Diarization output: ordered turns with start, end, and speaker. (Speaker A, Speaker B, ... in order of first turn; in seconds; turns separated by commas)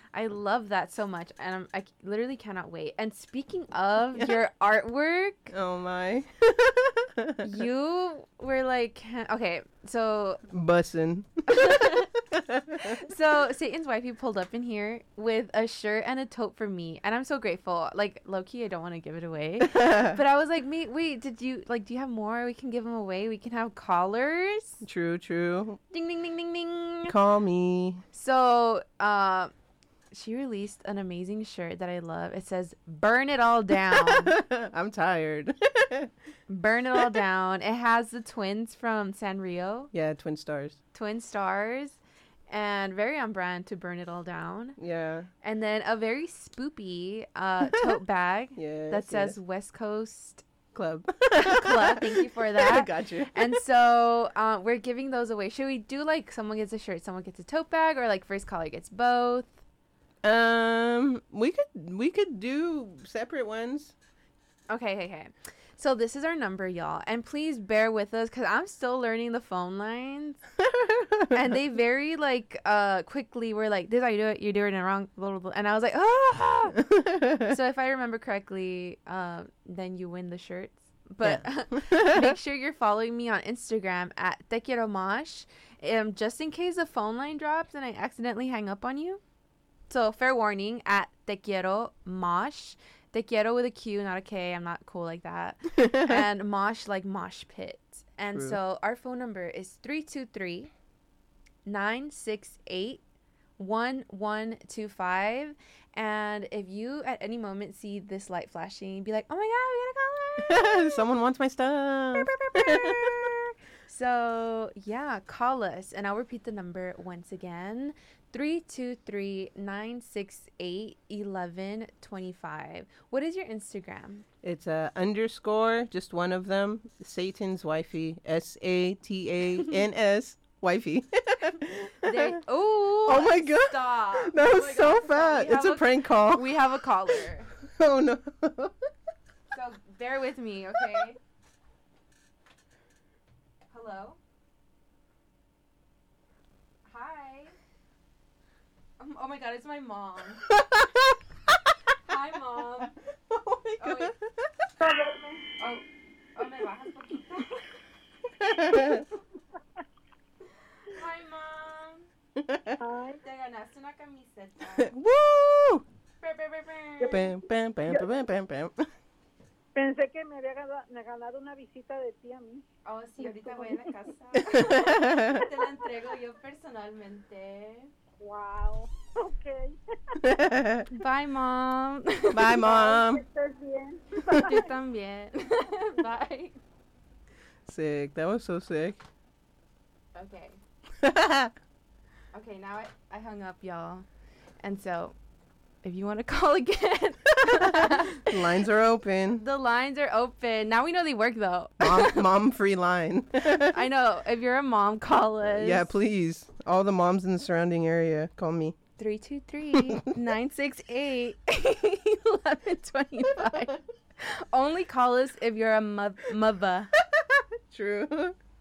Speaker A: 0.1-5.5, Speaker B: 5.5-7.5, Speaker A: 7.4-10.4, Speaker B: 10.5-13.1, Speaker A: 11.5-12.1, Speaker A: 12.8-24.8, Speaker B: 19.6-20.2, Speaker B: 24.8-25.8, Speaker A: 25.9-27.1, Speaker B: 27.1-28.0, Speaker A: 28.1-29.5, Speaker A: 30.1-34.3, Speaker B: 33.9-36.1, Speaker A: 36.5-39.9, Speaker B: 36.9-37.2, Speaker B: 39.9-40.8, Speaker A: 40.9-44.8, Speaker B: 44.8-45.3, Speaker A: 45.4-50.5, Speaker B: 47.6-47.9, Speaker B: 48.5-49.3, Speaker B: 50.7-53.6, Speaker A: 51.4-59.5, Speaker B: 60.2-63.9, Speaker A: 64.7-70.4, Speaker B: 70.6-71.3, Speaker A: 71.3-76.8, Speaker B: 76.8-77.5, Speaker A: 77.4-89.2, Speaker B: 81.2-82.3, Speaker A: 89.9-100.7, Speaker B: 95.8-96.1, Speaker B: 98.3-98.6, Speaker A: 101.7-103.0, Speaker A: 103.6-111.0, Speaker B: 110.4-113.3, Speaker A: 112.1-124.2, Speaker B: 124.4-132.4, Speaker A: 132.0-137.5, Speaker B: 133.0-138.8, Speaker A: 139.5-141.2, Speaker B: 140.8-141.0, Speaker A: 143.7-144.2, Speaker A: 146.9-147.5, Speaker A: 149.0-150.5, Speaker B: 150.5-151.6, Speaker A: 152.0-152.9, Speaker B: 153.3-154.5, Speaker A: 153.8-154.1, Speaker C: 154.8-155.4, Speaker A: 155.6-157.8, Speaker B: 158.4-159.0, Speaker A: 160.8-162.1, Speaker B: 162.3-162.8, Speaker C: 162.8-163.2, Speaker A: 163.2-164.9, Speaker B: 164.8-165.8, Speaker A: 166.2-167.2, Speaker B: 167.0-168.9, Speaker C: 169.7-172.6, Speaker A: 172.8-177.9, Speaker C: 173.2-173.9, Speaker B: 174.3-175.5, Speaker C: 178.2-179.7, Speaker B: 180.2-180.9, Speaker A: 180.9-183.0, Speaker B: 182.3-183.2, Speaker C: 182.6-184.7, Speaker A: 184.3-186.5, Speaker B: 187.7-189.0, Speaker A: 190.1-190.6, Speaker B: 191.0-191.5, Speaker A: 192.3-194.1, Speaker A: 194.6-195.2, Speaker A: 195.8-198.4, Speaker B: 197.4-199.4, Speaker A: 199.4-202.2, Speaker B: 201.8-203.8, Speaker A: 203.5-205.9, Speaker B: 205.5-208.8, Speaker A: 209.0-216.9, Speaker B: 217.0-218.3